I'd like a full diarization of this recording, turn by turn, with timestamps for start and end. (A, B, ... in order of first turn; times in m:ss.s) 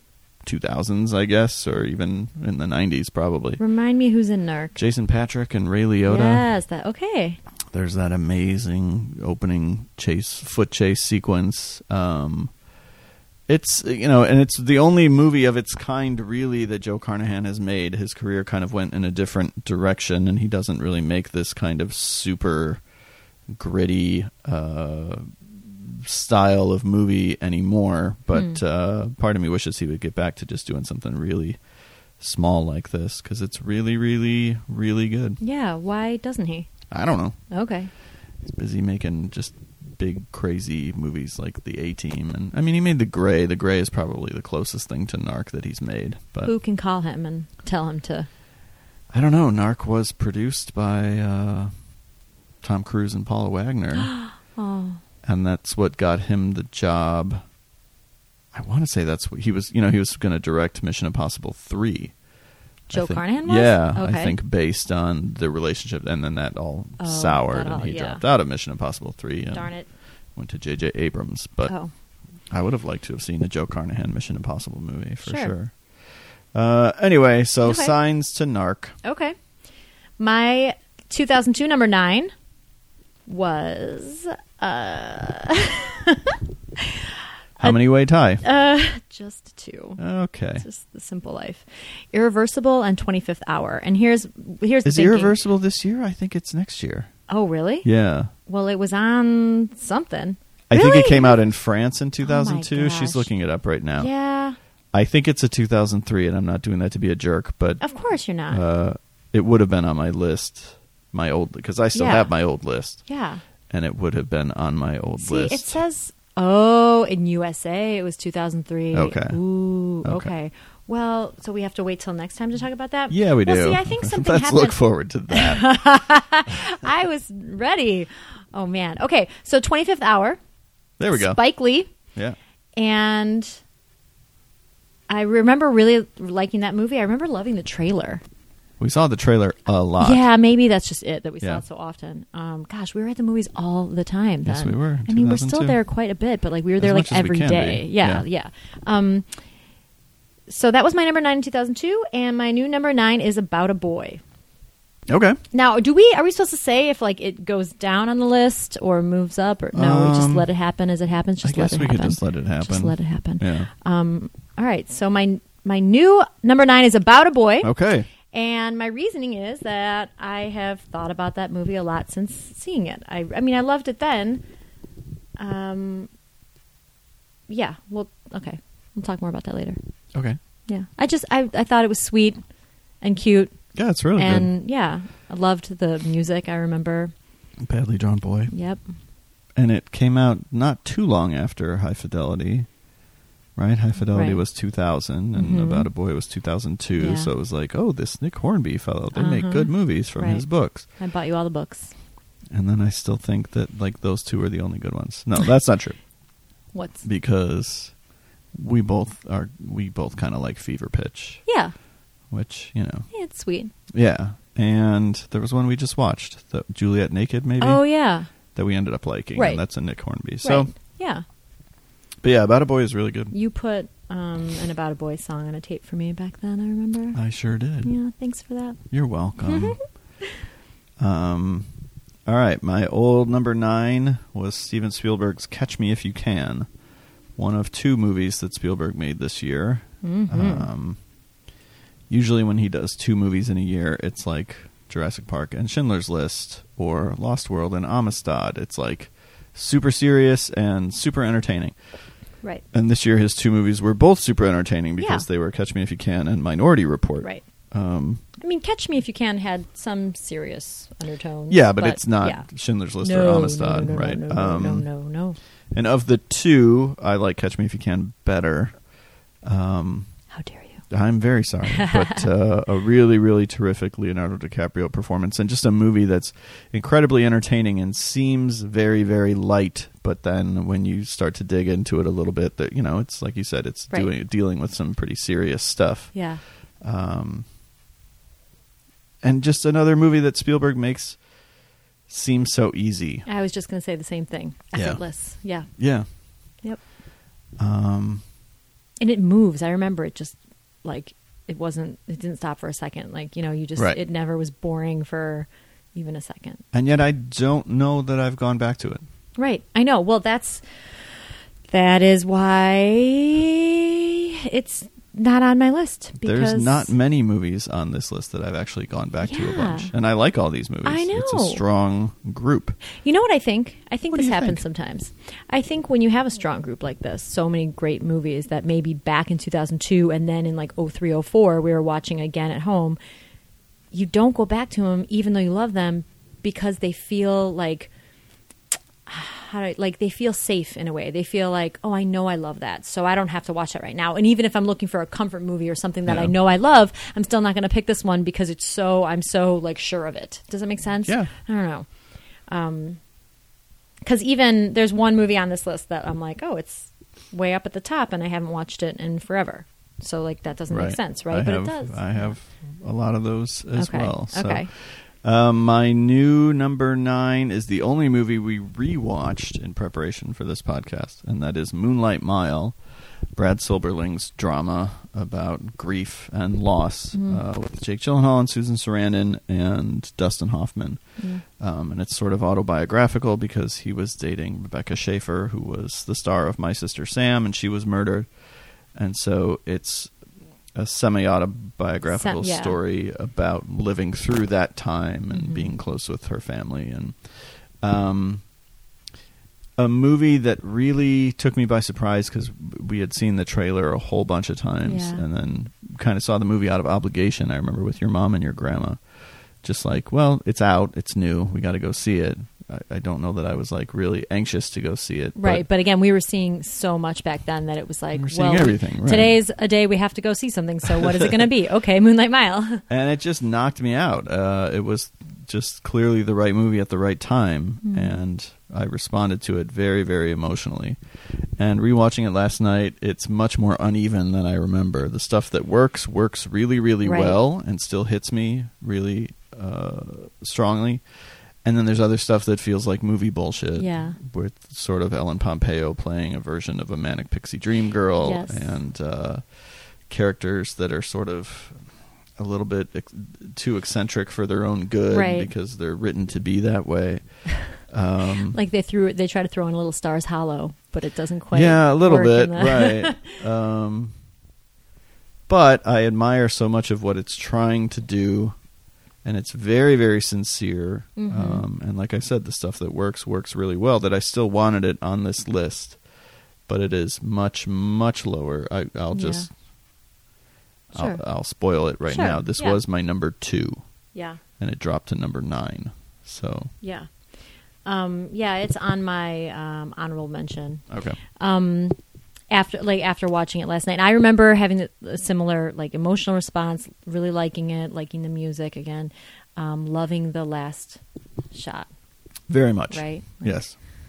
0:00.4-0:03.6 A
0:03.6-0:04.8 B
0:04.8-0:06.4 A
0:06.0-0:07.4 B
0:07.7-0:12.5 A
0:13.5-0:22.8 A
0:23.5-0:31.6 A
0:28.3-0:28.6 B
0:32.2-0:35.4 A
0:35.4-0:36.7 B
0:36.9-0:37.4 A
0:37.5-0:37.9 B
0:38.4-0:46.5 A
0:46.4-0:48.3 B
0:49.1-0:51.7 A
0:52.6-0:54.1 A
0:54.0-0:55.0 B
0:55.2-0:57.4 A
0:58.5-1:02.2 A
1:02.9-1:09.7 A
1:02.9-1:04.3 B
1:07.0-1:08.2 B
1:09.5-1:09.9 B
1:10.3-1:11.7 A
1:12.5-1:19.0 A
1:15.2-1:15.5 B
1:17.6-1:17.9 B
1:19.0-1:19.3 B
1:20.2-1:22.3 B
1:23.3-1:27.0 B
1:27.6-1:28.4 A
1:28.4-1:30.0 B
1:30.0-1:30.6 A
1:30.6-1:35.3 B
1:34.8-1:37.1 A
1:37.3-1:37.9 B
1:37.8-1:38.3 A
1:38.4-1:41.4 B
1:40.7-1:44.1 A
1:42.2-1:43.3 B
1:44.0-1:44.6 B
1:44.9-1:47.8 A
1:47.8-1:48.6 B
1:48.5-1:53.0 A
1:51.9-1:52.3 B
1:53.0-1:53.4 B
1:53.7-1:55.8 A
1:55.2-2:10.4 B
1:58.9-1:59.4 A
2:00.0-2:00.3 A
2:03.1-2:05.6 A
2:11.0-2:11.4 A
2:11.1-2:11.9 B
2:12.8-2:13.6 B
2:15.1-2:18.2 B
2:18.8-2:20.2 A
2:20.0-2:29.3 B
2:24.4-2:25.8 A
2:26.8-2:28.2 A
2:30.5-2:34.2 B
2:35.1-2:35.4 A
2:35.5-2:47.7 B
2:39.7-2:40.5 A
2:41.4-2:43.7 A
2:47.6-2:48.1 A
2:48.3-2:54.4 B
2:55.4-2:56.1 B
2:57.5-2:59.8 B
3:00.7-3:02.4 B
3:03.0-3:03.6 B
3:03.7-3:04.5 A
3:04.1-3:07.1 B
3:07.6-3:08.5 A
3:08.5-3:08.8 B
3:09.5-3:12.7 A
3:13.6-3:20.8 A
3:14.1-3:14.4 B
3:15.3-3:15.9 B
3:17.0-3:17.3 B
3:19.1-3:21.9 B
3:22.5-3:26.0 A
3:26.7-3:27.0 B
3:27.0-3:28.0 A
3:28.5-3:31.4 A
3:31.4-3:31.7 B
3:32.3-3:33.1 A
3:33.1-3:33.7 B
3:33.9-3:37.8 A
3:37.6-3:38.3 B
3:38.5-3:40.7 A
3:39.3-3:39.6 B
3:40.4-3:41.2 B
3:42.2-3:43.3 A
3:43.3-3:47.2 B
3:47.1-3:47.9 A
3:47.8-3:48.8 B
3:48.9-3:49.8 A
3:49.4-3:49.8 B
3:51.0-3:51.7 A
3:52.2-3:56.7 A
3:57.4-4:01.0 A
4:00.0-4:00.7 B
4:02.1-4:11.7 A
4:12.7-4:18.2 A
4:15.0-4:15.2 B
4:18.4-4:22.5 B
4:21.5-4:24.9 A
4:23.0-4:25.4 B
4:25.7-4:28.8 A
4:29.4-4:30.1 A
4:30.3-4:30.8 B
4:30.9-4:47.4 A
4:31.7-4:32.2 B
4:46.1-4:46.4 B
4:49.2-4:51.2 A
4:52.1-4:53.2 A
4:53.2-4:55.8 B
4:54.7-4:55.0 A
4:55.8-4:56.1 A
4:57.6-4:58.2 A
4:59.0-5:06.6 B
5:06.7-5:09.0 A
5:09.4-5:10.6 B
5:11.7-5:16.9 B
5:16.2-5:22.8 A
5:19.2-5:19.9 B
5:20.8-5:21.6 B
5:22.9-5:33.0 B
5:24.1-5:24.6 A
5:33.9-5:37.9 B
5:39.0-5:51.9 B
5:46.1-5:46.3 A
5:51.0-5:51.3 A
5:52.5-5:53.0 B
5:54.0-6:02.2 B
6:00.7-6:12.8 A
6:03.8-6:04.7 B
6:13.3-6:30.1 A
6:17.1-6:17.4 B
6:30.7-6:38.4 A
6:32.1-6:32.8 B
6:35.3-6:35.7 B
6:39.8-6:49.0 A
6:44.8-6:45.2 B
6:49.6-6:55.6 A
6:55.4-7:02.8 B
6:58.1-6:59.4 A
7:02.9-7:11.0 A
7:07.8-7:08.2 B
7:11.6-7:38.6 A
7:17.0-7:17.4 B
7:23.8-7:24.2 B
7:28.2-7:28.8 B
7:35.1-7:35.5 B
7:38.5-7:43.3 B
7:41.5-7:44.1 A
7:45.5-7:48.6 A
7:49.2-7:56.0 A
7:51.2-7:51.6 B
7:56.7-7:59.5 A
7:59.1-7:59.5 B
8:00.9-8:03.8 A
8:00.9-8:01.2 B
8:02.1-8:02.8 B
8:04.1-8:04.4 B
8:04.6-8:06.7 A
8:06.8-8:07.1 B
8:07.8-8:10.8 B
8:10.9-8:11.2 A
8:11.4-8:12.0 B
8:12.5-8:21.9 B
8:22.5-8:23.7 A
8:22.9-8:23.6 B